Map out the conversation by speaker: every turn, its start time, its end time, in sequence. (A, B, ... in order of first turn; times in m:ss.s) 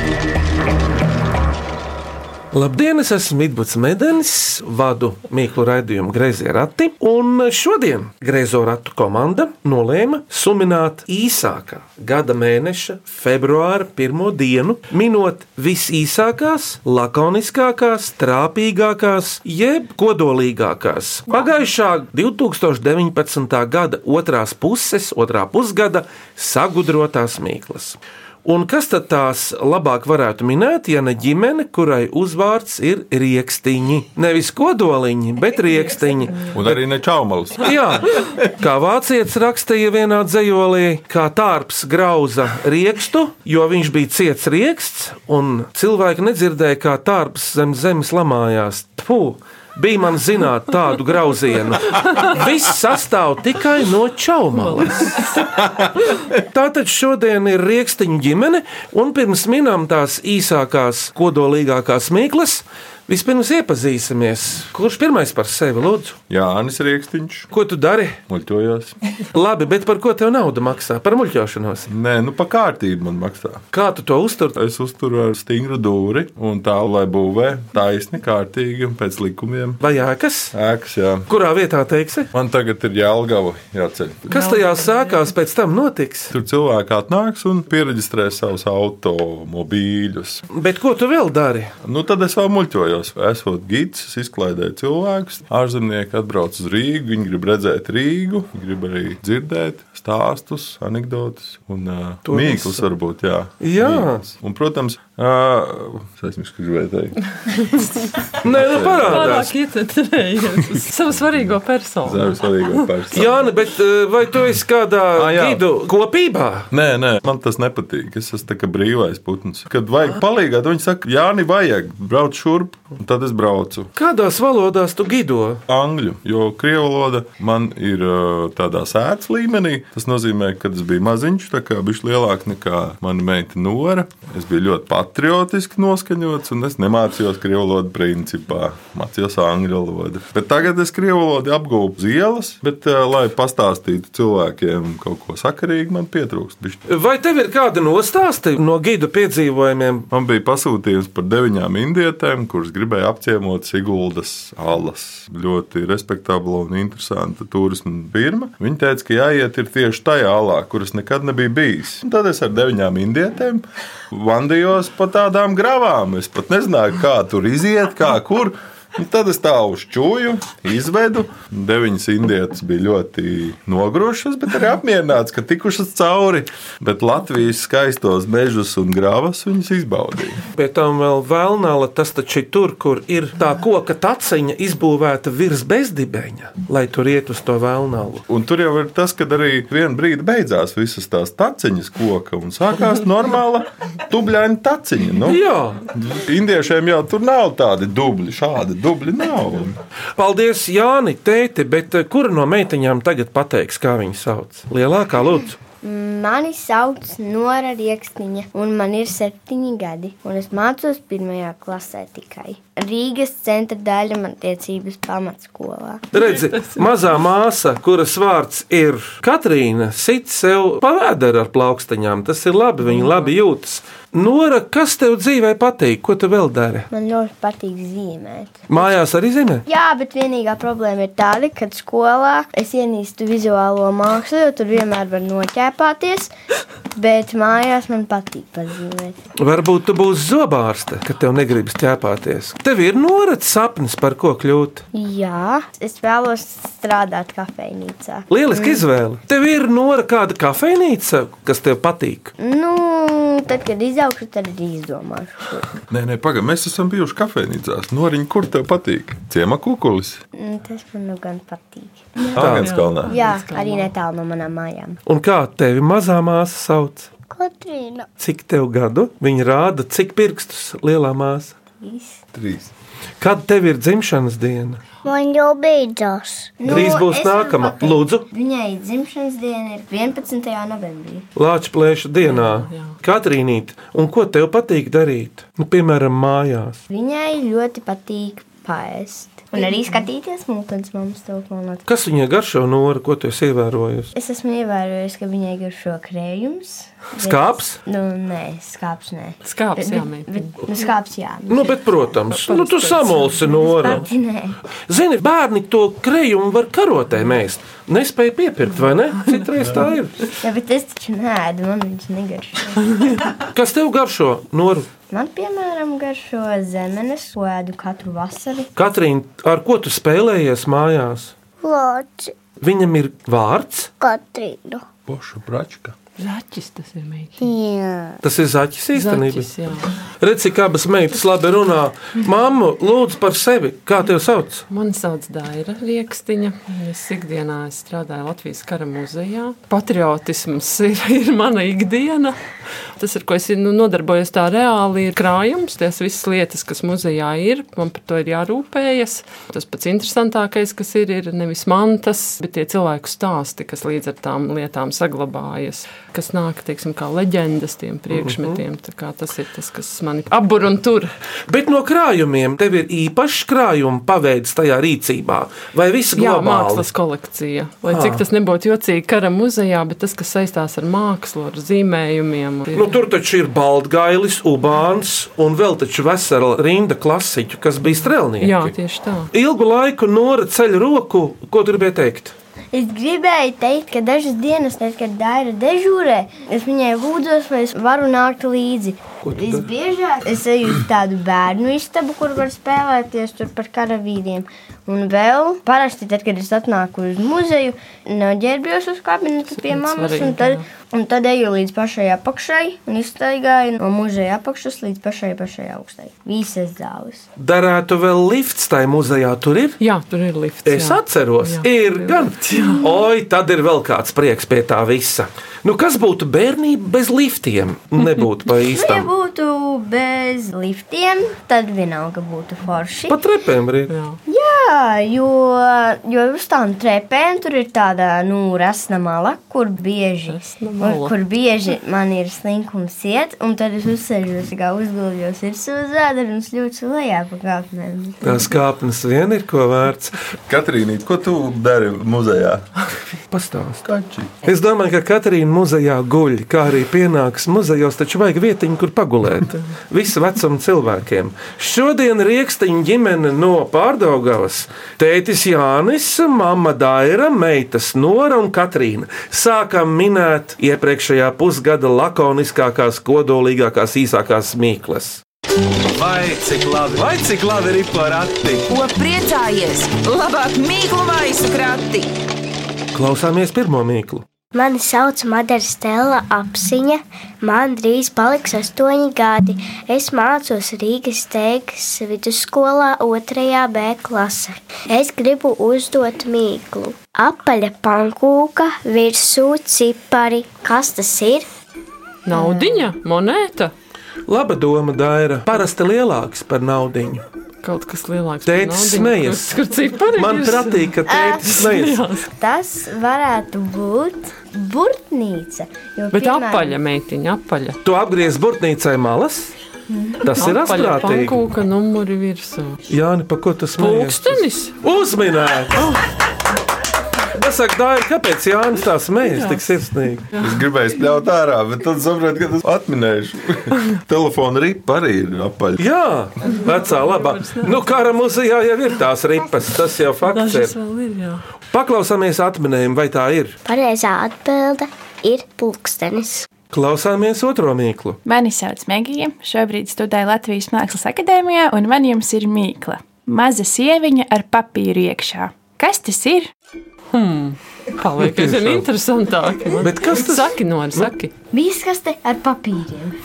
0:02.5-0:36.8 A
0:36.5-0:38.0 B
0:37.6-0:55.2 A
0:54.5-0:55.5 C
0:56.3-1:06.2 A
1:06.3-1:07.5 B
1:07.5-1:08.2 A
1:08.3-1:09.0 B
1:09.3-1:11.9 A
1:11.9-1:13.6 B
1:13.7-1:14.6 A
1:14.5-1:19.8 B
1:19.8-1:20.5 A
1:20.5-1:21.3 B
1:21.3-1:22.3 A
1:22.3-1:24.3 B
1:24.3-1:26.3 A
1:24.3-1:25.3 C
1:26.3-1:30.4 B
1:30.5-1:31.7 A
1:31.8-1:47.2 B
1:42.2-1:42.9 A
1:43.6-1:44.2 A
1:48.4-1:49.5 B
1:48.4-1:49.5 A
1:49.1-1:52.9 C
1:50.8-1:51.4 B
1:52.0-1:53.5 B
1:53.1-1:56.7 A
1:55.1-1:55.6 B
1:56.7-2:03.9 B
2:04.0-2:05.6 A
2:05.7-2:26.8 B
2:26.9-2:30.1 A
2:30.1-3:00.4 B
3:00.6-3:08.2 A
3:08.3-3:15.4 B
3:15.2-3:15.8 A
3:15.9-3:19.8 B
3:20.2-3:25.6 A
3:25.8-3:36.0 D
3:36.1-3:46.9 A
3:36.1-3:36.8 C
3:42.8-3:43.3 C
3:46.9-3:48.6 D
3:48.7-3:49.6 A
3:49.6-3:56.3 D
3:56.9-3:59.2 D
3:59.4-4:04.8 A
4:04.9-4:08.8 D
4:08.3-4:12.3 A
4:12.4-4:15.7 D
4:15.9-4:20.2 B
4:20.3-4:25.0 D
4:22.3-4:23.1 B
4:22.3-4:22.7 A
4:22.6-4:23.9 C
4:25.0-4:27.1 A
4:27.3-4:28.1 E
4:28.2-4:31.5 A
4:31.8-4:32.2 D
4:32.3-4:32.7 B
4:33.2-4:34.8 A
4:35.0-4:36.5 E
4:36.6-4:41.3 D
4:36.7-4:38.2 A
4:41.4-4:46.8 A
4:42.2-4:43.0 C
4:46.9-4:51.8 D
4:51.8-4:54.1 A
4:54.1-5:01.8 D
4:57.2-4:57.8 A
4:59.4-5:00.6 C
5:01.5-5:04.0 A
5:02.3-5:04.0 C
5:03.6-5:04.6 D
5:04.9-5:10.1 A
5:09.6-5:09.8 B
5:10.4-5:13.0 D
5:13.5-5:14.9 A
5:15.1-5:18.7 D
5:18.8-5:21.3 A
5:21.6-5:22.3 E
5:22.6-5:23.9 A
5:24.0-5:24.8 E
5:25.1-5:25.9 B
5:26.2-5:27.4 C
5:27.4-5:28.2 E
5:28.2-5:29.5 A
5:28.9-5:29.9 C
5:30.2-5:34.6 A
5:34.7-5:42.4 C
5:43.0-6:01.1 C
5:58.1-5:58.6 A
6:01.5-6:06.9 A
6:06.2-6:13.0 C
6:07.9-6:08.2 A
6:12.7-6:18.7 A
6:18.4-6:19.3 C
6:19.3-6:22.3 A
6:22.7-6:47.3 D
6:29.2-6:29.7 A
6:39.6-6:40.6 C
6:47.4-6:49.8 A
6:49.8-6:52.8 C
6:50.6-6:59.1 A
6:58.6-7:03.2 D
7:03.1-7:03.9 A
7:03.9-7:04.2 C
7:04.3-7:18.4 D
7:10.3-7:11.1 C
7:18.2-7:20.1 A
7:20.5-7:22.6 B
7:23.3-7:23.8 A
7:23.8-7:24.4 B
7:24.4-7:45.2 A
7:45.9-7:48.7 F
7:48.7-7:52.1 G
7:52.9-7:54.2 A
7:54.5-8:11.5 E
8:12.2-8:13.7 C
8:12.3-8:12.7 D
8:14.3-8:17.2 A
8:17.6-8:22.2 C
8:18.4-8:19.6 A
8:20.1-8:22.0 A
8:21.1-8:21.6 D
8:22.3-8:26.8 D
8:26.1-8:27.8 C
8:27.8-8:29.5 A
8:29.9-8:30.2 D
8:30.2-8:31.4 A
8:30.4-8:32.8 C
8:32.9-8:36.0 A
8:33.8-8:34.7 C
8:37.3-8:40.3 A
8:39.3-8:39.8 C
8:40.4-8:45.8 B
8:45.8-8:50.7 A
8:46.5-8:48.1 C
8:50.3-8:51.4 C
8:51.7-8:53.6 A
8:53.6-8:56.5 E
8:56.7-8:58.2 A
8:58.2-9:06.5 H
9:07.1-9:11.3 C
9:08.2-9:08.8 A
9:09.8-9:11.1 A
9:11.5-9:13.2 D